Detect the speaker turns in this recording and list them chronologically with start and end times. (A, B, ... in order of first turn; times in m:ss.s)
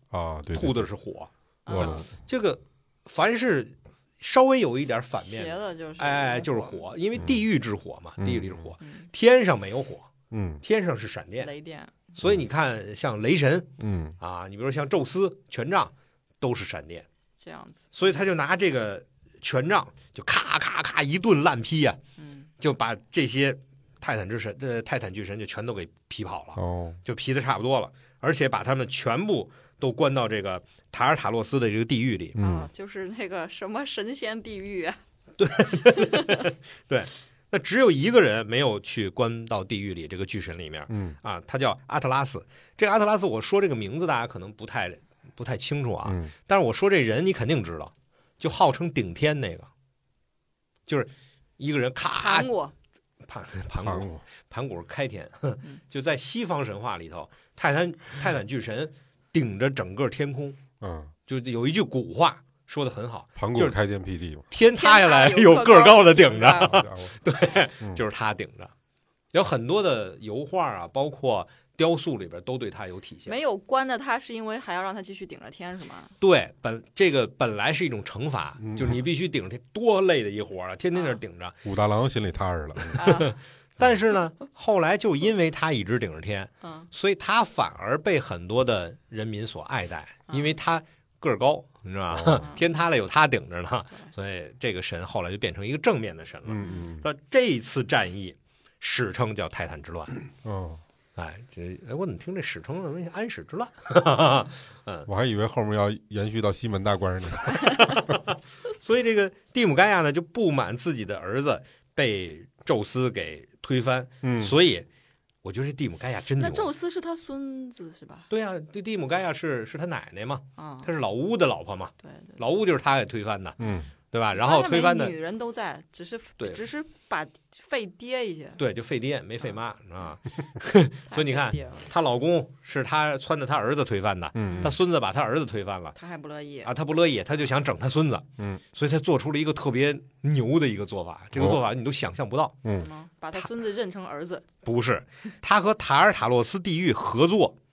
0:00.1-0:00.9 A
0:00.5-0:10.1 B
0:01.6-0:02.1 C
0:01.7-0:02.1 A
0:05.2-0:06.8 C
0:08.2-0:08.6 A
0:08.8-0:09.1 C
0:10.3-0:10.6 A
0:10.6-0:11.5 B
0:11.4-0:12.0 C
0:12.1-0:17.1 B
0:13.8-0:14.2 A
0:17.4-0:18.2 C
0:17.9-0:22.0 B
0:22.2-0:22.5 C
0:22.6-0:32.4 B
0:26.6-0:27.0 A
0:32.4-0:32.7 A
0:32.4-0:35.0 C
0:35.4-0:49.7 B
0:36.0-0:36.4 C
0:40.9-0:41.2 A
0:46.0-0:46.3 A
0:50.9-0:52.5 B
0:52.1-0:52.7 C
0:53.2-1:00.6 B
0:53.8-0:54.2 A
1:00.8-1:01.1 A
1:01.3-1:03.8 B
1:03.4-1:04.4 A
1:04.5-1:08.7 B
1:04.7-1:06.8 C
1:06.6-1:07.1 A
1:09.3-1:13.4 B
1:13.2-1:16.1 C
1:16.2-1:21.6 B
1:18.6-1:19.0 A
1:20.9-1:21.2 C
1:21.6-1:23.0 A
1:22.8-1:40.2 B
1:23.0-1:23.3 C
1:26.6-1:26.9 C
1:30.3-1:30.6 C
1:32.1-1:32.4 A
1:36.4-1:37.0 A
1:36.6-1:36.9 C
1:40.4-1:40.8 A
1:41.2-1:45.1 B
1:45.1-1:47.8 A
1:47.6-1:54.9 B
1:54.2-1:54.6 A
1:55.4-1:56.7 B
1:56.4-1:58.3 C
1:58.3-2:03.6 B
2:00.6-2:00.9 C
2:02.0-2:02.4 C
2:03.6-2:03.9 A
2:04.1-2:05.1 B
2:04.3-2:08.6 C
2:08.6-2:16.0 B
2:11.1-2:11.9 C
2:14.4-2:14.7 A
2:14.4-2:14.8 C
2:16.0-2:16.7 C
2:16.6-2:22.6 B
2:22.8-2:24.4 C
2:24.6-2:27.6 B